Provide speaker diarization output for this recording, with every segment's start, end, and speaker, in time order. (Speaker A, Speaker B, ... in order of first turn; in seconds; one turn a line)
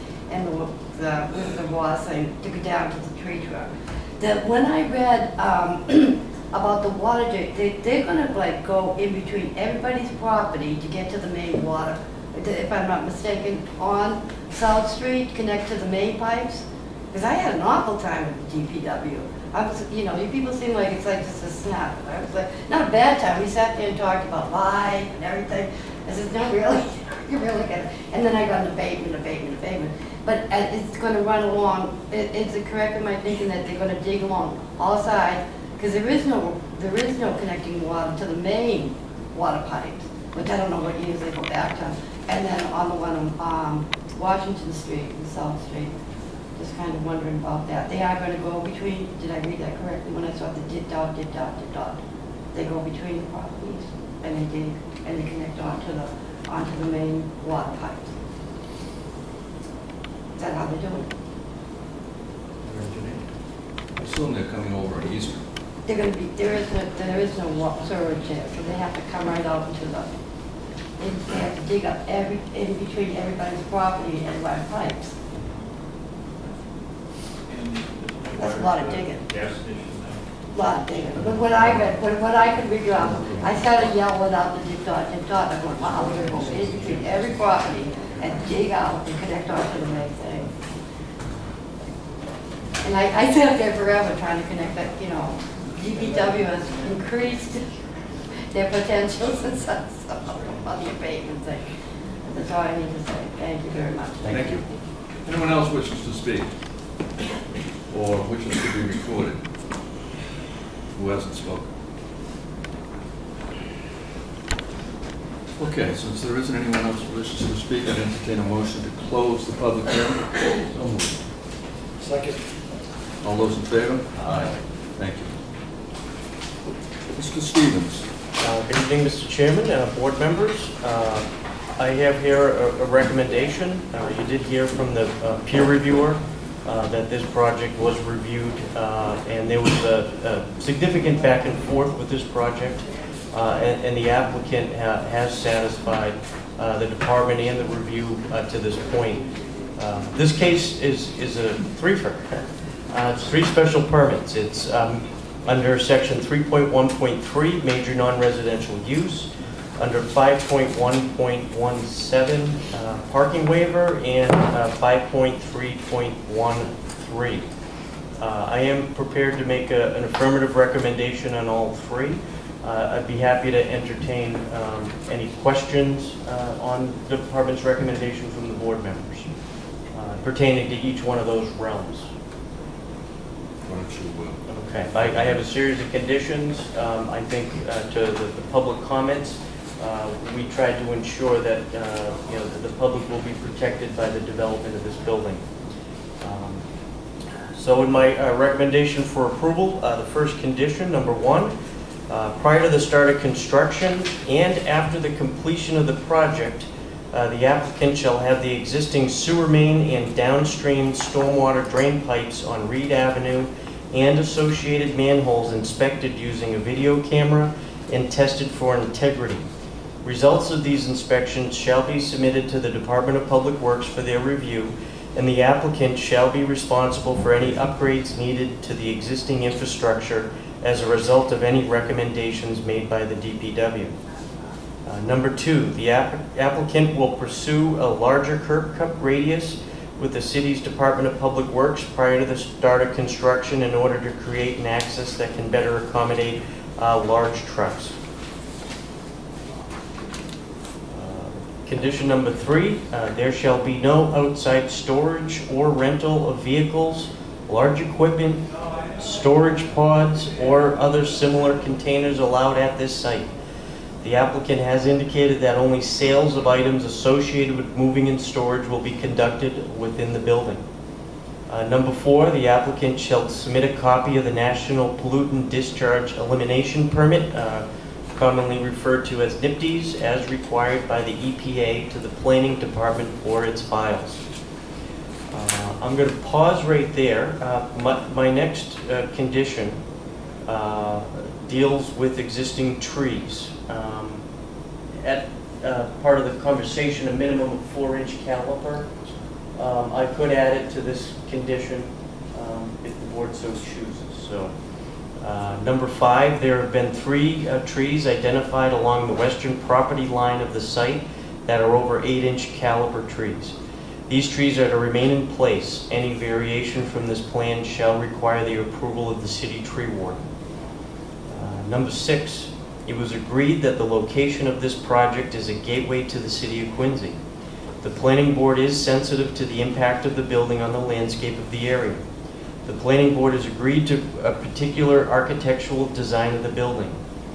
Speaker A: 0.3-45.9
Speaker A: 46.5-52.0
Speaker A: 52.5-58.1
Speaker A: 60.4-61.1
Speaker B: 62.6-63.3
Speaker B: 64.0-65.4
Speaker A: 65.8-70.1
Speaker A: 71.0-75.1
Speaker C: 77.5-80.2
Speaker A: 78.3-79.3
Speaker A: 80.5-90.5
Speaker B: 81.1-82.0
Speaker B: 83.0-83.6
Speaker A: 92.8-97.7
Speaker A: 98.5-101.7
Speaker A: 102.3-104.6
Speaker B: 104.2-104.7
Speaker B: 105.2-106.5
Speaker B: 107.9-109.4
Speaker B: 111.0-111.7
Speaker B: 115.6-121.1
Speaker B: 123.2-125.3
Speaker B: 127.1-128.0
Speaker D: 128.4-149.2
Speaker D: 149.8-167.4
Speaker D: 168.2-179.3
Speaker D: 179.9-182.1
Speaker B: 183.6-184.4
Speaker D: 184.5-195.4
Speaker B: 184.9-185.4
Speaker D: 196.2-196.6
Speaker D: 197.6-201.5
Speaker D: 202.1-219.5
Speaker D: 220.0-233.9
Speaker D: 234.8-247.9
Speaker D: 250.9-258.4
Speaker D: 259.0-263.3
Speaker D: 264.0-270.6
Speaker D: 271.5-277.6
Speaker D: 278.1-284.2
Speaker D: 285.3-289.8
Speaker D: 290.4-294.2
Speaker D: 295.0-298.9
Speaker D: 299.6-304.5
Speaker D: 305.2-313.5
Speaker D: 314.1-320.2
Speaker D: 321.3-327.2
Speaker D: 327.8-332.0
Speaker D: 332.6-337.0